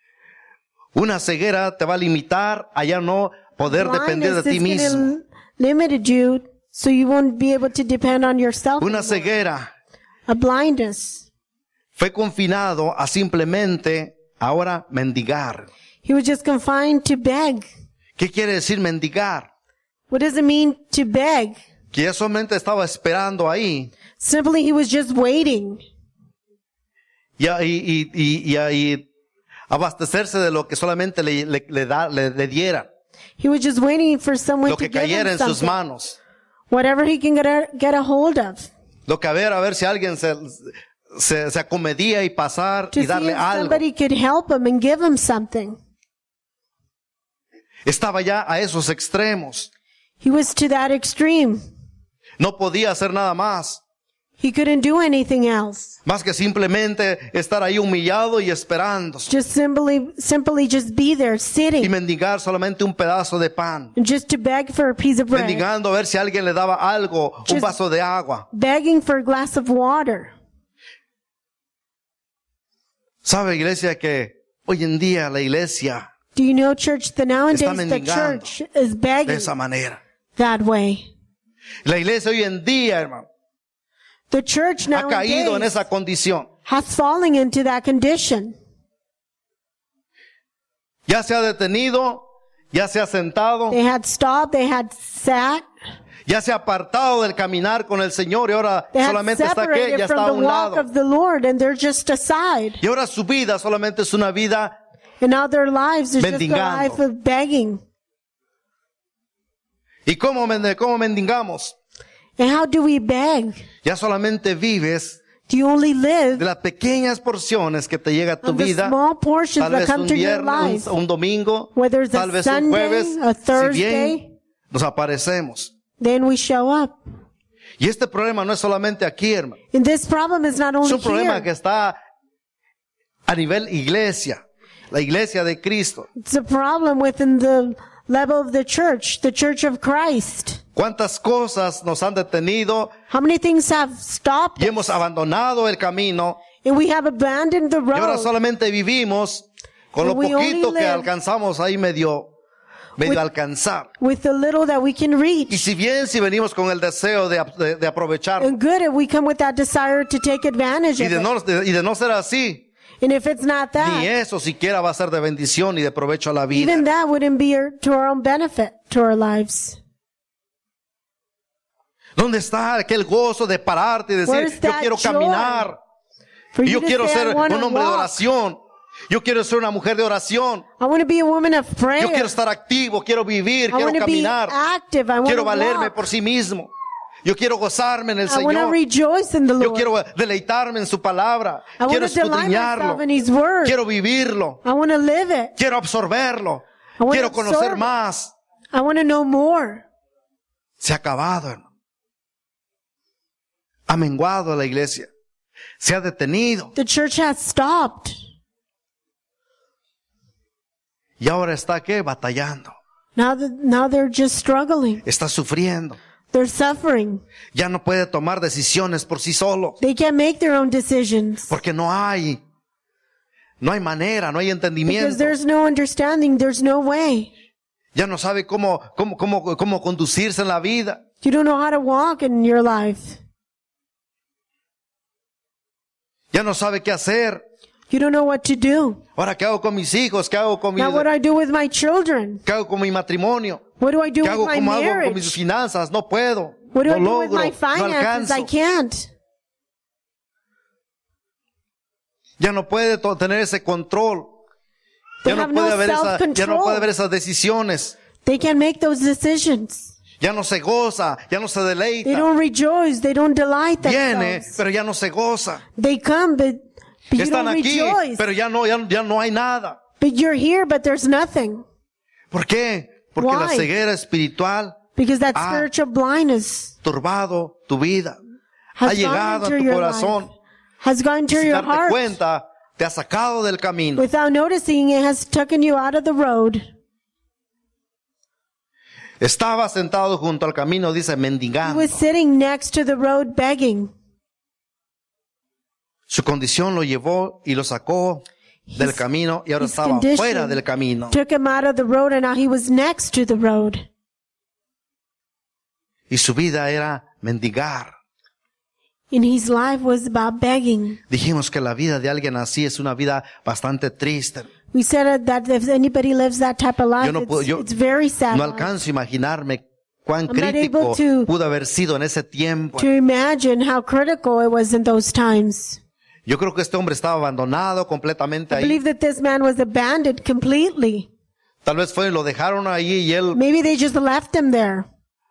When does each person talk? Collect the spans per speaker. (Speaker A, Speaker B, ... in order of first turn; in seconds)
Speaker A: 0.9-5.1, 8.8-9.7, 11.9-15.7, 18.2-19.5, 21.9-23.9, 27.4-29.0, 29.7-32.9, 34.6-36.2, 39.1-43.8, 47.8-49.7, 52.4-53.8, 56.0-59.3, 61.8-63.9, 65.3-68.5, 73.2-76.0, 77.5-78.5, 79.2-80.0, 81.8-83.2, 84.9-86.5, 91.1-93.8, 96.2-100.8, 102.8-104.7, 106.2-107.0, 110.0-111.8, 113.8-115.2, 116.4-118.9, 119.6-124.2, 124.7-125.7, 127.8-129.6, 130.8-132.0, 133.3-136.1, 140.7-142.9, 144.6-146.4, 147.9-152.3, 153.0-153.9, 155.5-158.5, 161.0-162.6, 163.8-166.8, 172.2-175.8, 176.6-180.6, 182.0-184.5, 185.2-186.7, 187.2-188.8, 189.6-193.0, 193.6-194.6, 195.6-198.3, 200.8-201.6, 203.9-205.1, 205.8-206.7, 211.2-212.7, 215.0-216.0, 217.5-219.8, 221.5-222.4, 223.6-225.3, 227.9-231.0, 236.3-237.4, 239.2-241.1, 242.4-243.6, 244.2-248.5, 252.4-254.3, 255.2-258.0, 260.2-262.3, 263.8-265.6, 267.2-269.8, 272.3-274.8, 275.3-275.7, 276.8-278.2, 278.8-280.3, 281.3-284.0, 289.2-292.0, 296.1-298.2, 298.8-301.2, 306.1-307.9, 311.1-314.5, 317.0-317.6, 318.3-322.9, 326.2-328.8, 331.6-333.4
Speaker B: 3.7-9.2, 10.3-11.2, 16.0-17.6, 20.1-21.6, 24.2-25.8, 33.4-35.8, 36.7-38.7, 42.9-45.8, 50.2-51.6, 54.4-56.0, 59.3-61.9, 64.0-65.6, 67.5-67.7, 68.5-70.3, 76.3-79.5, 80.3-81.0, 84.3-85.8, 86.7-88.5, 93.7-95.7, 98.9-102.8, 105.2-107.8, 112.4-113.6, 115.5-116.4, 118.4-120.9, 121.7-124.3, 126.0-127.0, 129.7-131.5, 136.2-140.6, 143.1-145.0, 146.6-148.3, 150.0-151.1, 154.0-155.6, 158.4-161.3, 163.0-164.1, 166.5-169.8, 174.2-175.7, 176.5-178.1, 180.8-182.3, 183.7-186.0, 188.3-189.9, 191.8-193.8, 194.6-195.5, 197.0-197.9, 198.7-199.8, 206.8-208.2, 213.2-215.0, 216.3-217.2, 219.8-221.5, 224.9-227.3, 231.2-233.2, 237.9-239.0, 240.8-242.4, 243.8-245.4, 246.7-249.1, 255.2-256.9, 258.2-259.9, 262.0-264.6, 265.8-268.2, 270.0-271.6, 273.2-273.7, 274.9-276.7, 278.8-280.3, 280.8-282.2, 284.0-286.6, 291.6-293.9, 298.7-299.0, 299.6-303.9, 309.1-311.0, 314.7-318.7, 320.3-321.3, 322.8-325.8, 328.5-331.1, 333.3-334.9